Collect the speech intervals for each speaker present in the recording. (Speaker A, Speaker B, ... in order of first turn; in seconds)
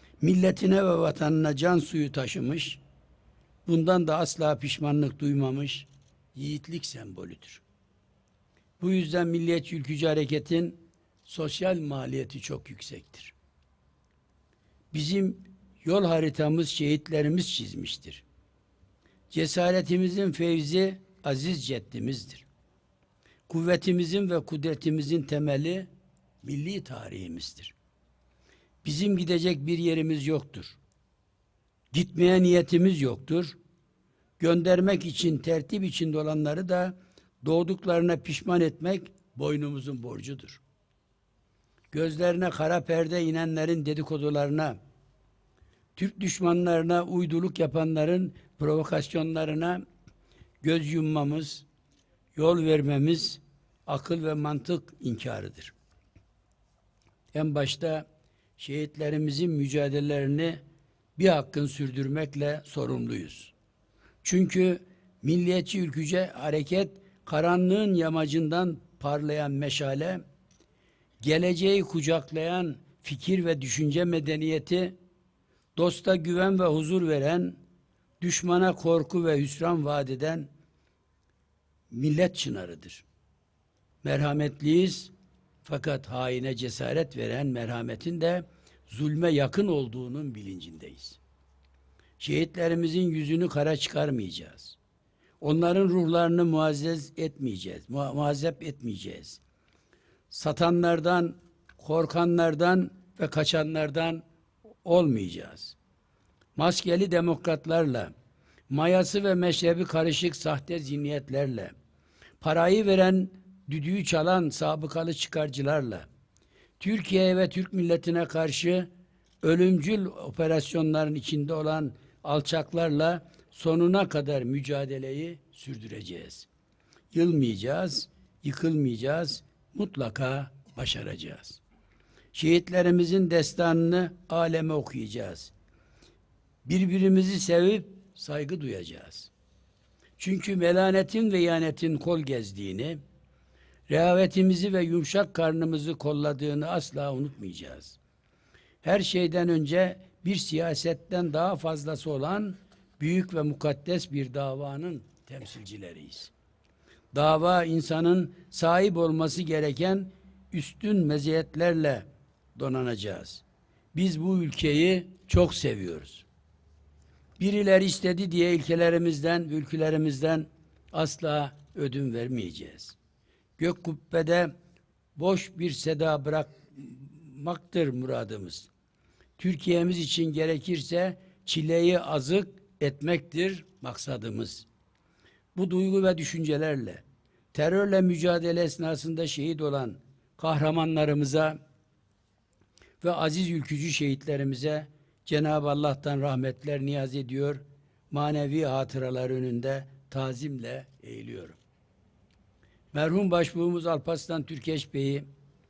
Speaker A: 0.2-2.8, 3.6-7.6, 8.8-13.3, 14.9-18.2, 19.3-22.4, 23.5-25.9, 26.4-27.7, 28.8-30.8, 31.9-33.5, 34.4-40.6, 41.9-44.8, 46.0-49.8, 50.6-51.6, 52.3-55.7, 57.3-58.0, 58.6-60.6, 61.2-63.5, 64.2-70.2, 71.2-75.0, 75.8-77.6, 78.2-80.5, 81.9-83.0, 84.0-85.1, 85.6-91.2, 92.2-94.8, 95.4-99.4, 100.3-104.2, 104.8-105.8, 106.5-108.1, 108.7-111.7, 112.4-116.1, 116.8-118.9, 119.4-126.5, 127.1-131.6, 132.3-135.5, 136.6-139.3, 140.2-143.0, 143.9-148.0, 148.8-156.3, 157.1-163.4, 163.9-166.2, 167.4-172.9, 173.6-174.5, 175.2-178.7, 179.4-184.7, 185.5-191.6, 193.0-201.6, 202.9-205.3